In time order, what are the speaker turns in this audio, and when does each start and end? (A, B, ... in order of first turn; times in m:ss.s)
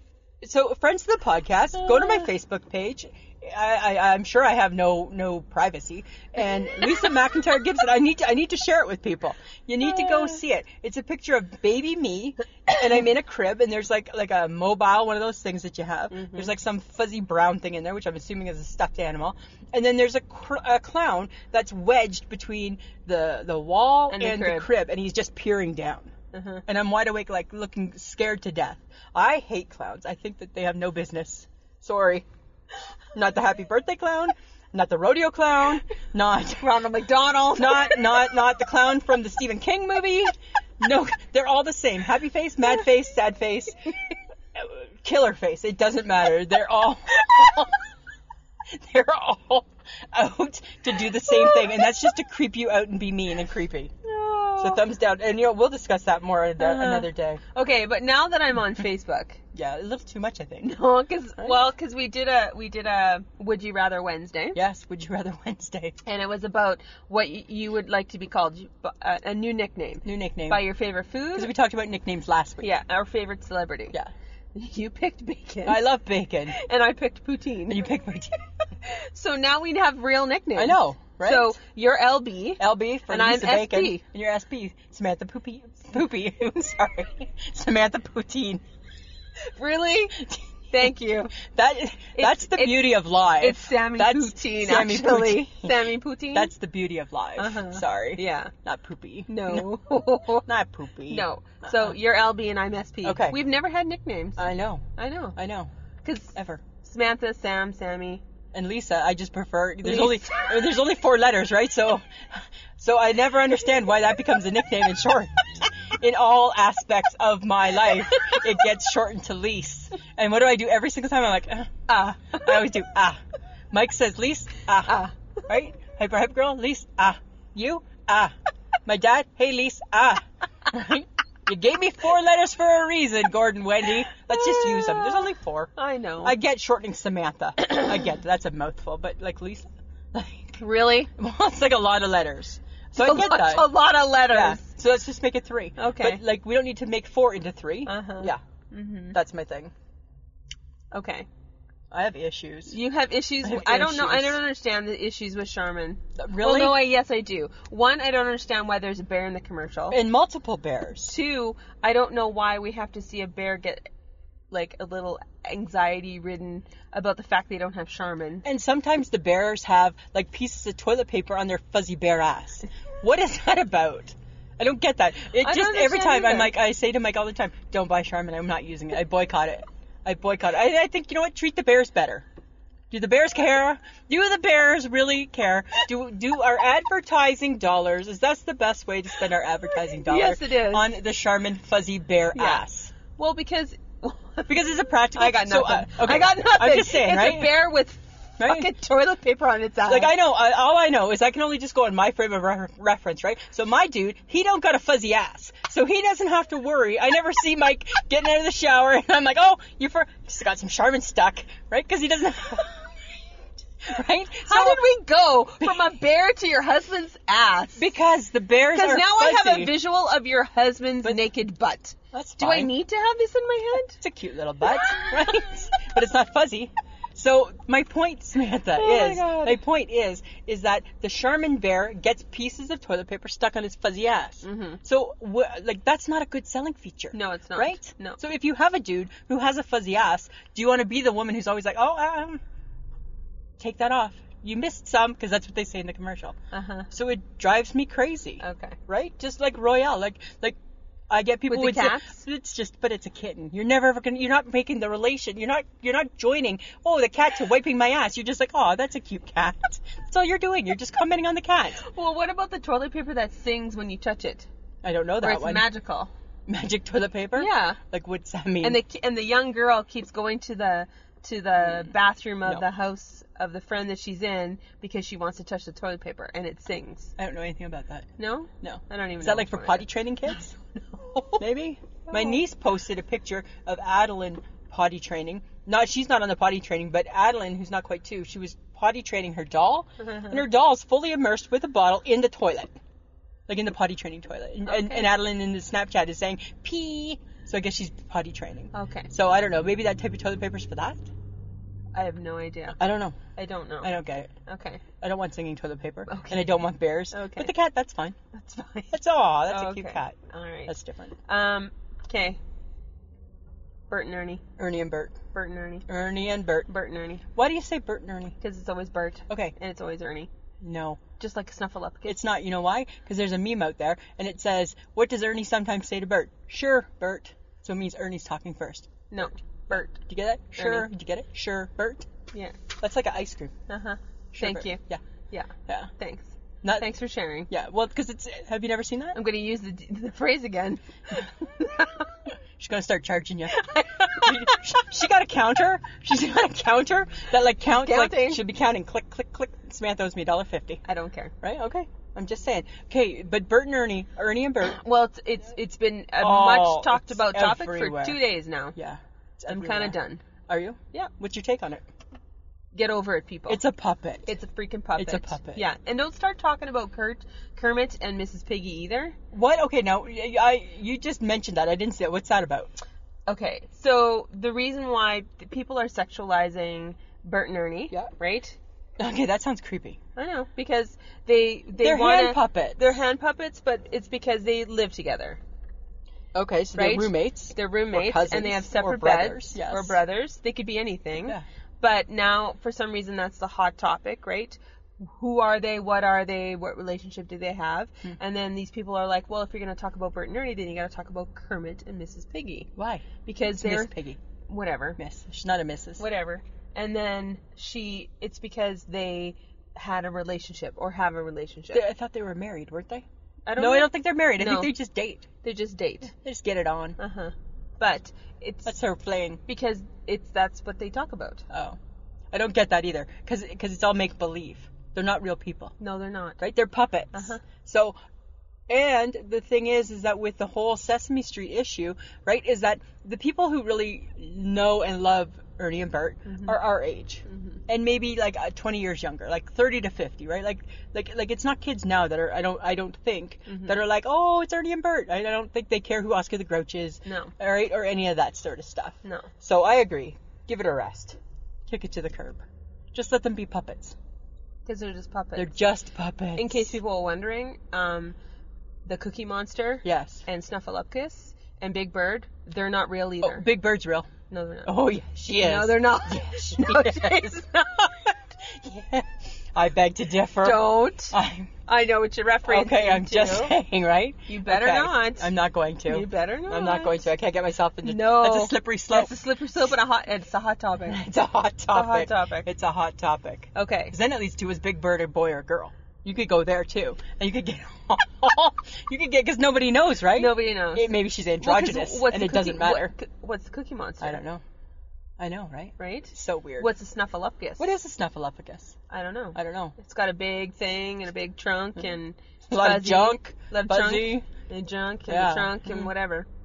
0:00.4-0:26.1 A
0:16.1-0:16.5 B
0:24.1-0:24.7 B
0:26.3-0:26.6 B
0:26.7-0:32.2 A
0:33.1-0:36.7 A
0:36.6-0:38.3 B
0:37.5-0:43.8 A
0:44.5-0:47.8 A
0:48.7-0:53.9 A
0:54.0-0:54.8 B
0:54.6-0:57.4 A
0:56.6-0:59.4 B
0:59.5-1:00.8 A
1:00.6-1:04.6 B
1:04.5-1:06.0 A
1:06.0-1:11.5 B
1:10.0-1:10.6 A
1:11.3-1:12.7 A
1:12.6-1:14.0 B
1:14.5-1:15.8 B
1:15.6-1:16.6 A
1:16.5-1:17.8 B
1:17.7-1:18.4 A
1:18.8-1:24.0 B
1:20.5-1:21.6 A
1:22.6-1:28.6 A
1:29.4-1:31.4 B
1:30.2-1:30.4 A
1:31.4-1:39.7 A
1:32.2-1:36.5 B
1:37.4-1:38.5 B
1:39.3-1:40.5 B
1:40.4-1:42.0 A
1:41.1-1:45.4 B
1:43.0-1:43.4 A
1:44.4-1:44.8 A
1:45.4-1:45.7 A
1:46.0-1:48.2 B
1:46.3-1:46.6 A
1:48.5-2:03.2 A
1:49.8-1:50.5 B
2:01.9-2:02.7 B
2:03.7-2:08.3 A
2:04.8-2:05.1 B
2:08.8-2:15.7 A
2:14.3-2:16.3 B
2:16.2-2:20.6 A
2:17.6-2:17.9 B
2:20.6-2:21.1 B
2:21.1-2:23.7 A
2:23.0-2:24.7 B
2:24.3-2:28.4 A
2:25.8-2:26.2 B
2:27.8-2:29.2 B
2:29.1-2:29.7 A
2:30.9-2:31.3 B
2:31.9-2:32.8 A
2:32.7-2:40.0 B
2:33.4-2:34.4 A
2:36.2-2:36.8 A
2:39.9-2:41.1 A
2:41.0-2:43.9 B
2:44.5-2:48.4 B
2:48.4-3:02.2 A
2:55.4-2:56.5 B
3:02.9-3:12.9 A
3:10.0-3:10.9 B
3:12.3-3:20.1 B
3:14.5-3:17.5 A
3:18.4-3:18.7 A
3:19.9-3:33.0 A
3:33.8-3:34.9 A
3:34.4-3:37.9 B
3:37.8-3:39.7 A
3:38.7-3:44.0 B
3:42.1-3:42.7 A
3:44.0-4:02.4 A
3:48.8-3:49.6 B
3:54.4-3:54.8 B
3:57.1-3:58.2 B
4:03.6-4:06.4 A
4:06.5-4:06.9 B
4:06.9-4:10.6 A
4:08.4-4:08.8 B
4:11.1-4:21.8 A
4:11.5-4:12.2 B
4:21.8-4:24.5 B
4:24.8-4:25.7 A
4:25.2-4:26.1 B
4:26.5-4:28.8 A
4:27.4-4:27.8 B
4:28.6-4:37.1 B
4:31.6-4:31.9 A
4:37.2-4:38.1 A
4:38.2-4:41.4 B
4:38.6-4:40.5 A
4:41.4-4:52.7 A
4:42.1-4:42.4 B
4:50.0-4:50.4 B
4:53.5-5:01.1 A
4:54.6-4:55.1 B
4:58.7-4:59.1 B
5:01.9-5:02.8 B
5:02.8-5:03.2 A
5:03.3-5:03.9 B
5:03.8-5:04.3 A
5:04.4-5:04.8 B
5:05.0-5:08.2 A
5:06.1-5:06.5 B
5:07.1-5:07.5 B
5:08.3-5:08.9 B
5:08.9-5:10.2 A
5:09.5-5:10.7 B
5:10.7-5:11.1 A
5:11.2-5:12.4 B
5:13.9-5:14.4 B
5:14.6-5:15.2 A
5:15.3-5:15.9 B
5:15.9-5:16.7 A
5:16.7-5:17.2 B
5:17.3-5:18.4 A
5:18.4-5:20.3 B
5:19.3-5:19.5 A
5:20.6-5:21.0 A
5:21.2-5:22.2 B
5:22.0-5:32.1 A
5:29.1-5:30.0 B
5:30.6-5:30.9 B
5:32.8-5:33.5 A
5:33.7-5:37.5 B
5:34.3-5:35.0 A
5:36.6-5:36.9 A
5:37.5-5:39.2 A
5:39.1-5:42.1 B
5:42.6-5:50.8 A
5:43.5-5:44.6 B
5:47.8-5:48.4 B
5:50.8-5:51.3 B
5:51.4-5:54.8 A
5:54.7-5:58.8 B
5:56.2-5:58.2 A
5:58.8-6:01.8 A
5:59.5-6:00.2 B
6:02.7-6:03.6 B
6:03.5-6:04.3 A
6:04.2-6:09.2 B
6:05.0-6:05.6 A
6:09.3-6:12.7 A
6:13.3-6:18.6 B
6:19.0-6:20.0 A
6:20.2-6:25.4 B
6:21.8-6:23.0 A
6:26.3-6:30.0 A
6:26.7-6:42.7 B
6:42.8-6:44.2 A
6:43.2-6:45.0 B
6:45.0-6:46.0 A
6:46.0-6:51.8 B
6:51.7-6:53.0 A
6:53.5-6:54.7 B
6:53.6-6:55.3 A
6:55.4-6:56.1 B
6:56.1-6:57.0 A
6:57.0-6:58.7 B
6:58.6-6:59.4 A
6:59.5-7:01.5 B
7:01.5-7:01.8 A
7:02.3-7:05.7 A
7:05.8-7:06.4 B
7:06.4-7:07.9 A
7:07.1-7:07.4 B
7:08.7-7:34.0 A
7:16.3-7:16.6 B
7:17.3-7:17.6 B
7:23.5-7:23.8 B
7:27.0-7:27.3 B
7:29.0-7:29.3 B
7:34.6-7:35.6 B
7:35.3-7:36.8 A
7:36.4-7:38.2 B
7:38.8-7:43.5 B
7:39.8-7:40.2 A
7:43.2-7:44.1 A
7:44.3-7:44.7 B
7:44.6-7:51.6 A
7:45.4-7:47.7 B
7:50.4-7:53.6 B
7:52.5-7:59.2 A
7:54.3-7:55.3 B
7:55.9-7:57.1 B
7:57.8-8:01.0 B
8:00.9-8:12.9 A
8:01.7-8:02.5 B
8:03.5-8:03.9 B
8:10.1-8:14.2 B
8:14.0-8:14.4 A
8:15.2-8:16.7 A
8:15.8-8:17.7 B
8:17.6-8:18.8 A
8:18.9-8:26.3 B
8:19.3-8:19.7 A
8:22.5-8:24.3 A
8:25.1-8:25.9 A